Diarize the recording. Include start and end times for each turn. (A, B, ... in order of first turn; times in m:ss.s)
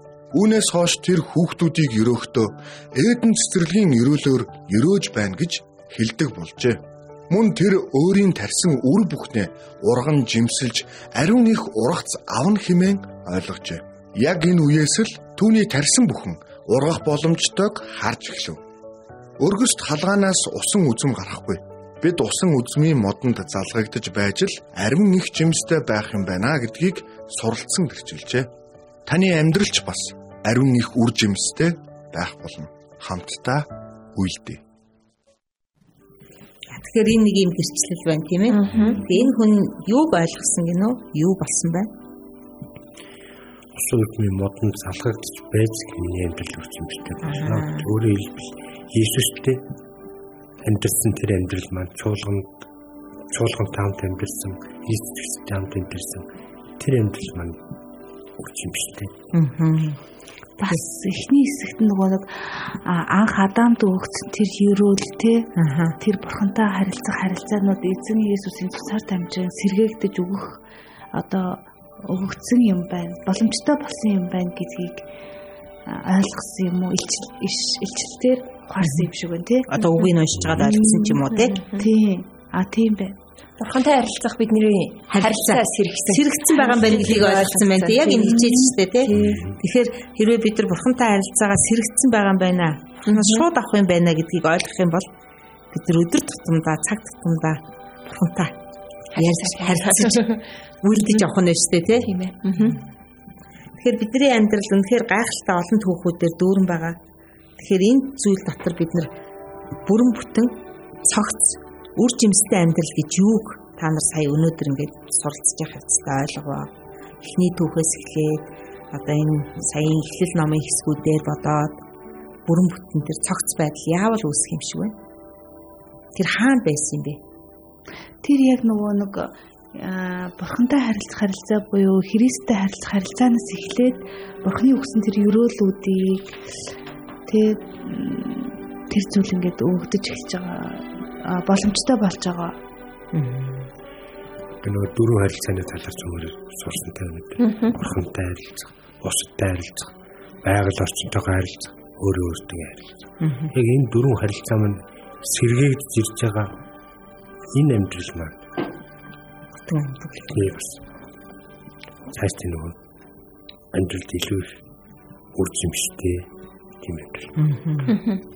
0:00.3-0:18.6 A
0:19.4-0:28.5 A
0:29.1-0:34.6 A
0:36.7-0:41.9 B
0:38.5-0:39.3 C
0:43.7-0:49.6 D
0:47.2-0:47.9 B
0:50.6-0:52.6 D
0:53.3-0:56.3 D
0:56.8-0:57.6 D
0:58.4-0:59.1 D
0:59.3-1:00.0 B
1:00.6-1:05.5 E
1:05.6-1:06.0 B
1:06.0-1:10.6 E
1:11.1-1:15.0 E
1:15.9-1:21.2 E
1:18.8-1:19.1 B
1:19.7-1:21.6 B
1:21.5-1:21.9 C
1:21.8-1:23.1 E
1:23.6-1:29.4 C
1:25.1-1:35.1 B
1:29.1-1:29.6 D
1:33.0-1:33.4 C
1:35.7-1:38.5 B
1:39.1-1:41.2 C
1:39.2-1:40.2 B
1:40.8-1:42.8 B
1:42.0-1:42.8 C
1:43.8-1:47.0 B
1:47.6-1:49.1 B
1:49.8-1:56.7 B
1:57.2-2:01.8 B
2:02.4-2:04.9 B
2:06.1-2:07.2 B
2:08.2-2:16.3 E
2:17.3-2:22.6 E
2:23.1-2:23.7 B
2:24.6-2:33.0 D
2:27.4-2:27.8 C
2:33.2-2:33.5 B
2:33.5-2:36.6 D
2:37.5-2:38.5 D
2:39.6-2:40.4 B
2:40.3-2:40.8 D
2:42.1-2:42.8 D
2:43.7-2:44.6 D
2:45.3-2:46.3 D
2:46.8-2:47.4 D
2:47.4-2:48.0 B
2:47.8-2:48.2 C